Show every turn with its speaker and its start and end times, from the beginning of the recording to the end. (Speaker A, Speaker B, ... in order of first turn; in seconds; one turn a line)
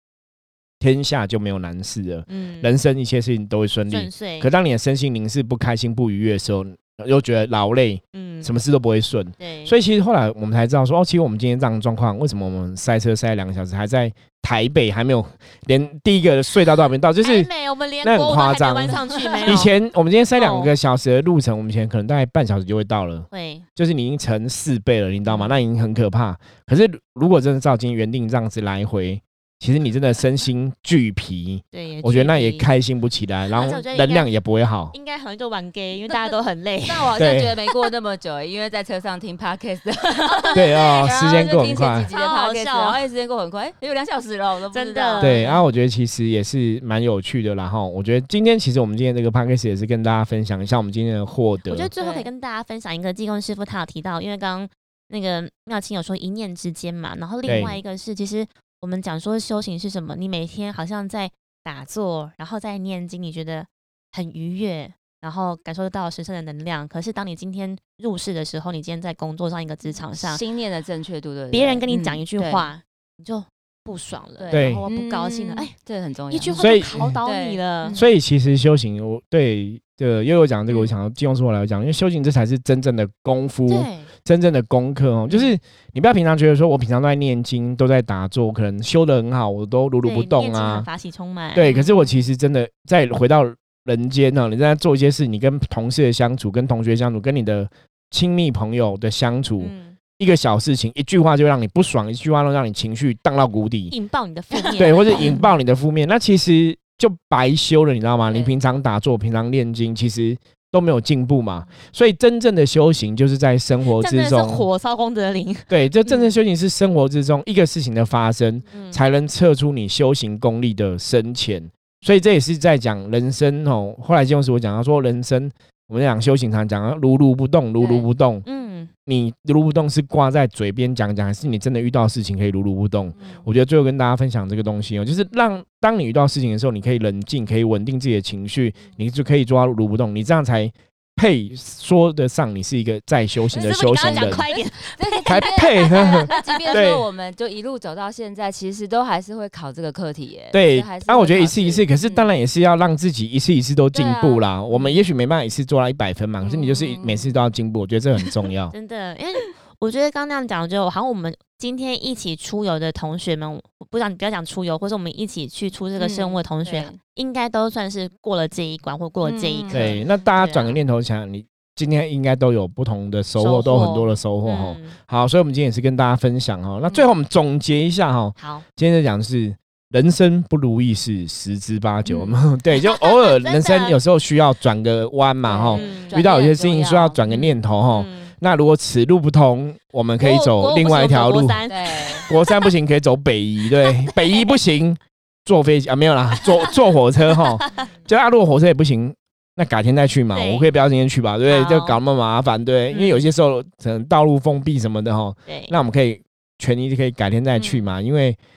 Speaker A: 0.8-17.5
Speaker B: 2.3-2.7
Speaker B: 3.9-4.5
Speaker B: 8.1-8.5
Speaker B: 9.4-9.7
Speaker B: 17.2-19.7
Speaker A: 18.0-35.0
Speaker C: 19.3-19.6
Speaker B: 20.4-20.7
Speaker B: 23.3-23.6
Speaker B: 25.3-25.6
Speaker B: 31.7-32.7
Speaker B: 33.5-34.3
Speaker B: 34.9-37.2
Speaker C: 36.1-45.5
Speaker A: 37.1-37.5
Speaker B: 40.2-41.1
Speaker A: 40.5-42.1
Speaker B: 42.1-43.0
Speaker B: 44.7-45.6
Speaker A: 45.2-51.9
Speaker B: 51.7-70.4
Speaker C: 52.0-52.3
Speaker A: 57.5-57.8
Speaker C: 70.1-72.7
Speaker B: 71.5-75.7
Speaker C: 74.4-78.1
Speaker A: 74.5-74.8
Speaker B: 76.3-78.0
Speaker A: 76.6-77.2
Speaker A: 77.9-90.9
Speaker B: 83.7-84.1
Speaker B: 90.0-92.1
Speaker A: 91.5-103.9
Speaker B: 99.6-100.0
Speaker B: 103.9-105.5
Speaker A: 104.7-114.7
Speaker B: 114.0-116.3
Speaker A: 115.7-128.4
Speaker B: 118.7-119.0
Speaker C: 127.8-128.1
Speaker B: 128.5-128.9
Speaker A: 129.1-144.4
Speaker C: 133.2-133.4
Speaker B: 143.5-146.8
Speaker C: 143.5-151.9
Speaker A: 145.2-147.1
Speaker A: 150.5-158.7
Speaker C: 153.9-155.0
Speaker C: 156.4-157.3
Speaker B: 158.7-170.8
Speaker C: 166.0-167.0
Speaker C: 169.2-170.1
Speaker A: 169.7-191.6
Speaker B: 173.4-175.0
Speaker B: 178.4-178.7
Speaker B: 182.1-184.0
Speaker C: 185.4-186.3
Speaker B: 185.7-188.3
Speaker B: 190.2-192.7
Speaker C: 191.7-192.3
Speaker A: 192.3-208.4
Speaker B: 193.8-194.6
Speaker B: 196.4-196.8
Speaker B: 197.4-197.9
Speaker B: 200.3-200.7
Speaker B: 201.5-202.0
Speaker B: 202.9-203.3
Speaker B: 205.5-205.7
Speaker B: 207.6-207.9